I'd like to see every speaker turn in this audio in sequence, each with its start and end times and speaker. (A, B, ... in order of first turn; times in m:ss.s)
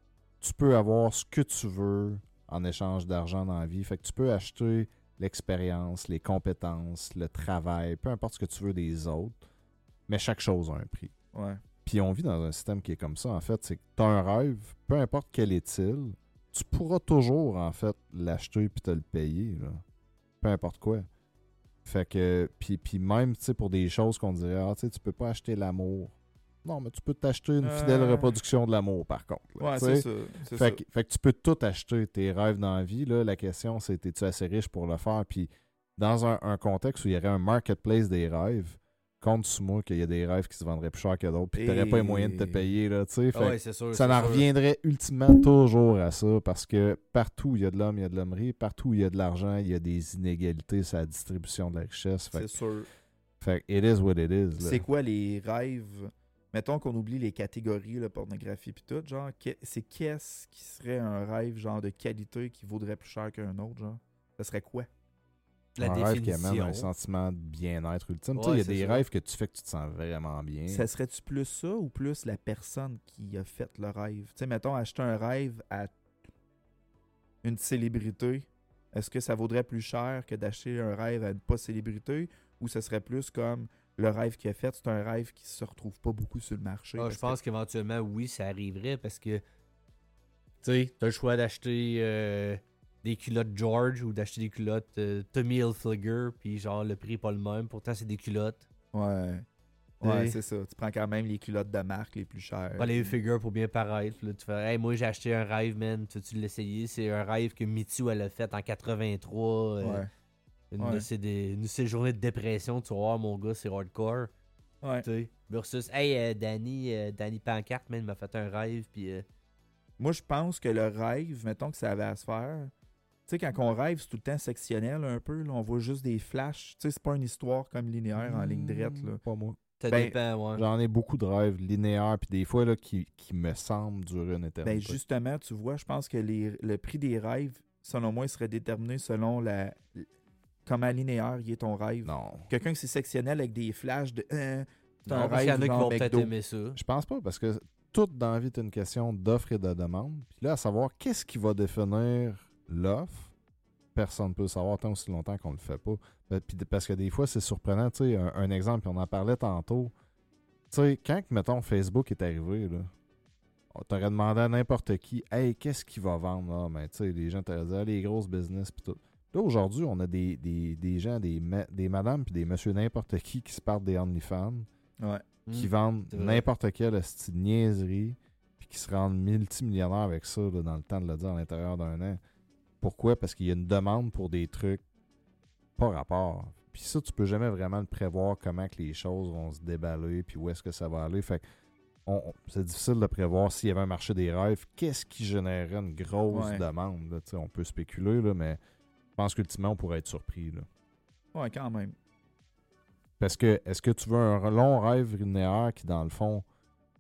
0:00.4-0:09.4 A
0:10.1-0:11.1 A
0:11.3-0:11.6 B
0:11.8-0:19.8 A
0:20.4-0:21.1 A
0:21.8-0:52.5 A
0:27.6-0:28.4 B
0:29.6-0:30.8 B
0:41.6-0:42.7 B
0:43.3-0:44.5 C
0:52.3-0:52.9 B
0:53.4-0:54.9 A
0:54.6-1:04.9 B
1:05.8-1:06.9 C
1:05.8-1:10.9 A
1:08.4-1:09.0 C
1:10.7-1:15.9 B
1:17.4-1:27.4 B
1:27.0-1:29.4 C
1:30.6-1:38.6 C
1:38.9-1:39.4 B
1:40.0-1:40.4 C
1:40.0-1:43.2 B
1:42.8-1:50.1 C
1:49.8-1:50.1 B
1:50.7-1:54.3 C
1:50.8-1:51.1 B
1:55.0-1:59.3 C
2:00.0-2:02.7 B
2:03.3-2:09.2 B
2:08.2-2:09.6 A
2:09.8-2:10.6 C
2:09.9-2:10.2 B
2:10.6-2:15.0 A
2:14.6-2:20.1 B
2:20.6-2:26.3 B
2:22.0-2:22.5 A
2:25.1-2:26.8 C
2:26.8-2:33.3 A
2:34.0-2:39.9 A
2:40.7-2:42.9 A
2:43.7-2:54.7 A
2:55.0-2:55.2 B
2:55.5-2:56.4 C
2:55.5-3:02.2 A
3:02.8-3:04.8 A
3:05.8-3:11.4 A
3:12.1-3:18.6 A
3:16.3-3:16.6 B
3:19.2-3:20.7 A
3:21.3-3:22.0 B
3:23.2-3:26.4 A